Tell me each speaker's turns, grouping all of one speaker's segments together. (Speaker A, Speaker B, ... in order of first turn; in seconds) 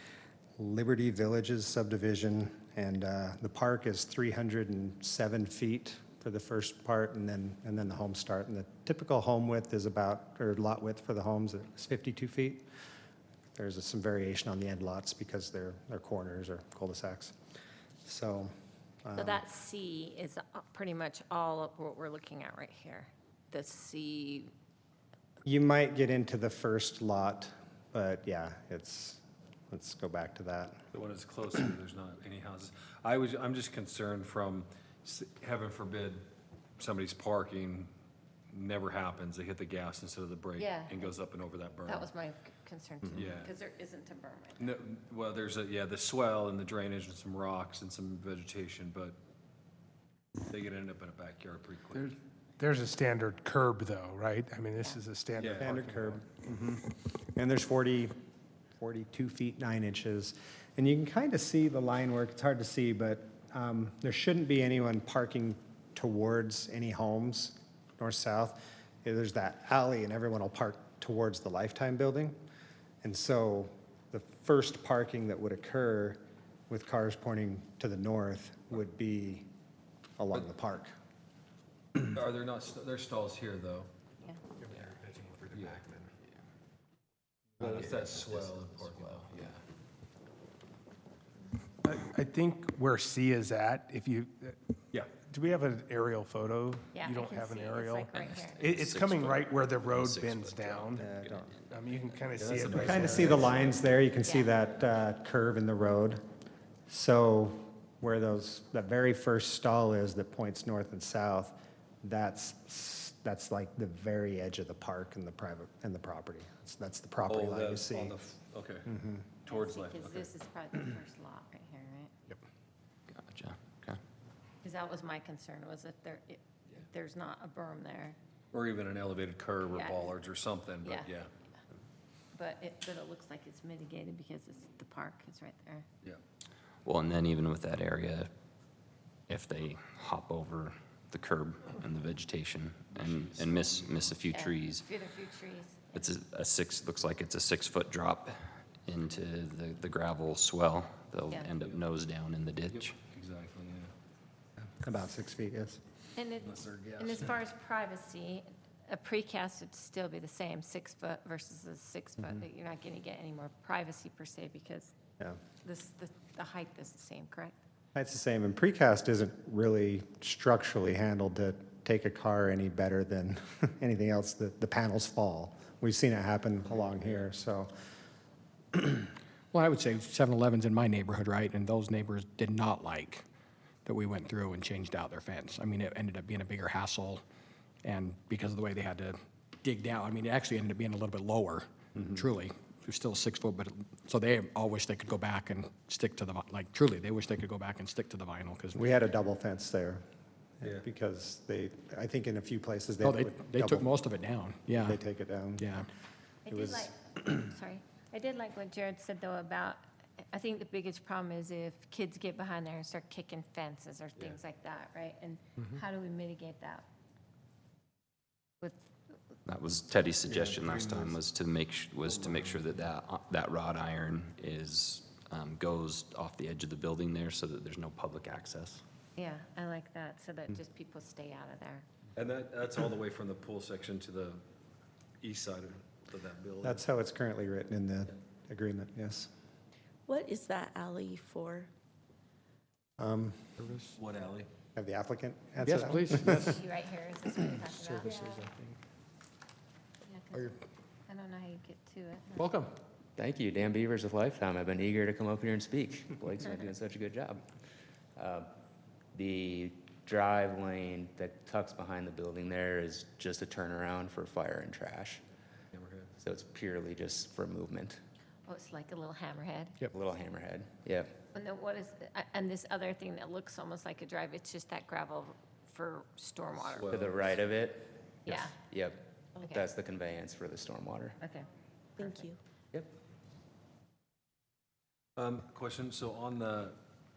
Speaker A: 0.6-12.7, 13.6-17.4, 18.0-18.5, 19.0-19.4, 25.4-30.9, 55.6-58.1, 58.8-72.4, 73.0-79.5, 80.2-80.9, 101.0-101.5, 102.7-106.2, 106.9-118.2, 118.9-119.4, 154.8-155.8, 167.9-177.7, 198.8-200.0, 200.6-203.9, 204.7-205.7, 206.5-207.3, 236.6-239.3, 243.0-243.5, 244.8-246.6
Speaker B: 19.1-24.5, 40.6-41.1, 41.9-44.7, 54.8-55.0, 96.9-98.7, 104.2-104.5, 119.5-122.1, 124.6-128.2, 129.7-130.2, 130.8-131.1, 132.3-135.9, 144.2-146.2, 156.2-164.9, 165.6-167.6, 206.5-216.9, 218.6-218.9, 229.2-231.9, 246.4-248.2, 250.1-252.5, 268.5-269.8, 271.3-276.9, 278.3-278.6, 279.4-279.7, 281.2-282.4
Speaker C: 30.9-36.2, 36.8-37.9, 38.5-42.1, 43.1-43.5, 44.6-49.2, 50.5-52.1, 55.4-55.7, 82.0-83.9, 85.5-86.0, 87.6-89.6, 102.4-103.8, 117.3-118.9, 119.5-120.3, 128.5-131.3, 143.0-144.1, 152.7-153.9, 156.4-157.4, 220.3-221.2, 222.1-222.6, 232.2-234.4, 235.2-236.8, 244.0-244.5, 265.7-266.1, 276.7-277.3, 285.2-286.8
Speaker D: 51.9-56.2, 84.9-85.4, 91.8-94.6, 95.2-101.1, 101.7-103.7
Speaker E: 87.6-89.3, 253.2-257.5, 258.1-258.5, 259.1-265.2, 266.1-268.0, 269.8-271.2, 276.8-281.2
Speaker F: 98.7-101.1, 123.1-124.0, 136.8-138.3, 139.3-144.9, 145.9-148.3, 148.8-152.9, 219.5-228.8
Speaker G: 179.5-183.2, 183.8-187.2, 187.8-198.9, 203.0-205.0, 205.6-205.9, 243.6-243.9, 245.6-246.6, 247.6-248.8, 252.4-252.7
Speaker H: 240.1-241.7, 282.0-282.4